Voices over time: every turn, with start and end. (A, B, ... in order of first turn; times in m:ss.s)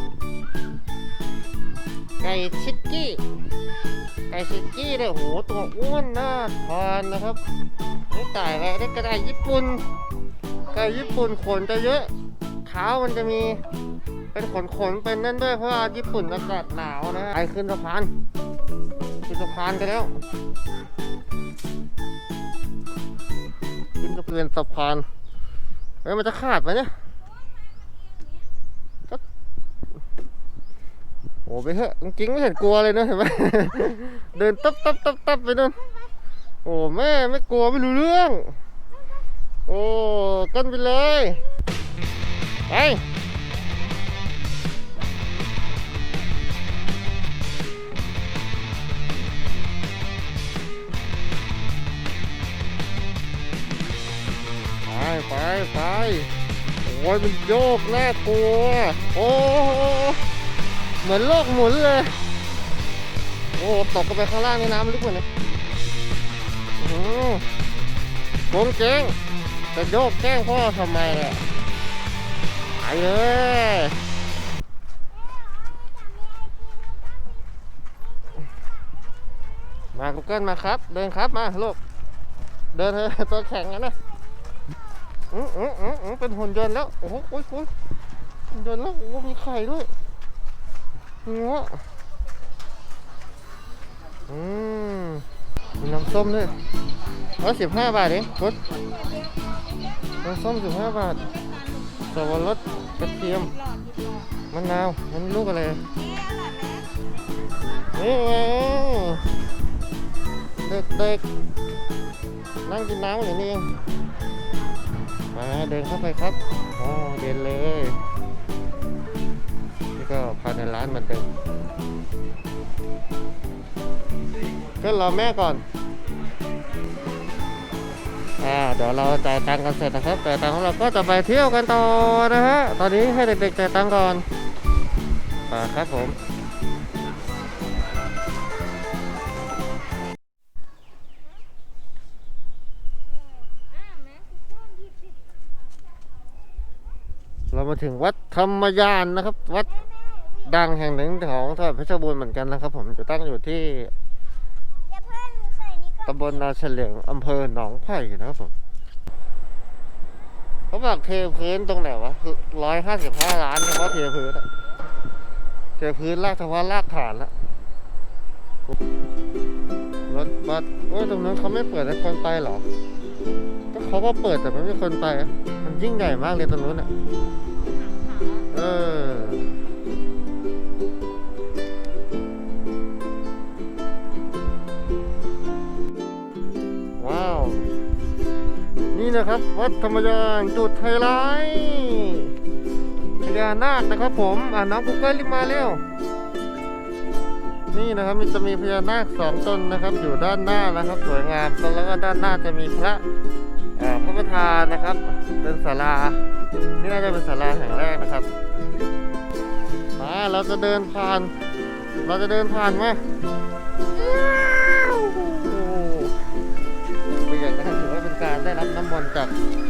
0:02.2-0:03.2 A
0:04.3-0:07.4 A
0:08.1-0:09.8 A
0:10.7-0:12.1 A
0:12.6-0:13.6 A
0:14.3-0:18.1 A
0:19.3-0:20.2 A
0:24.0-0:25.1 A
0:26.0-0:26.9 A
0:31.5-0:35.8 A
0:36.6-0:38.6 A
0:39.7-0:41.4 A
0:42.7-0:43.0 A
0:54.8-0:56.3 A
0:56.8-1:00.2 A
1:01.0-1:02.2 A
1:03.6-1:05.3 A
1:06.8-1:07.4 A
1:08.5-1:09.2 A
1:09.7-1:11.4 A
1:12.8-1:14.0 A
1:15.7-1:17.0 B
1:19.9-1:21.8 A
1:22.7-1:24.0 A
1:25.3-1:27.7 A
1:28.5-1:29.9 A
1:31.2-1:31.8 A
1:34.3-1:35.2 A
1:35.8-1:36.6 A
1:37.4-1:38.6 A
1:38.8-1:39.6 C
1:40.2-1:41.2 A
1:41.2-1:44.3 C
1:42.1-1:43.5 A
1:44.5-1:45.8 A
1:45.9-1:46.9 C
1:47.9-1:49.2 A
1:50.6-1:51.2 A
1:52.6-1:53.8 A
1:55.3-1:58.0 A
2:00.0-2:01.3 A
2:04.8-2:05.6 A
2:08.4-2:14.2 A
2:15.5-2:16.2 A
2:23.9-2:24.4 C
2:27.5-2:29.7 A
2:29.8-2:30.5 B
2:30.4-2:33.9 A
2:34.9-2:36.4 B
2:36.1-2:38.5 A
2:40.7-2:44.5 A
2:45.8-2:47.3 A
2:50.1-2:52.6 A
2:53.7-2:56.9 A
2:57.6-2:58.5 C
2:58.5-2:59.6 A
3:07.0-3:07.7 A
3:08.9-3:12.3 A
3:13.2-3:15.8 A
3:17.7-3:23.0 A
3:23.8-3:26.2 A
3:26.8-3:28.3 A
3:30.0-3:31.3 A
3:32.0-3:33.0 A
3:33.9-3:36.2 A
3:37.2-3:39.3 A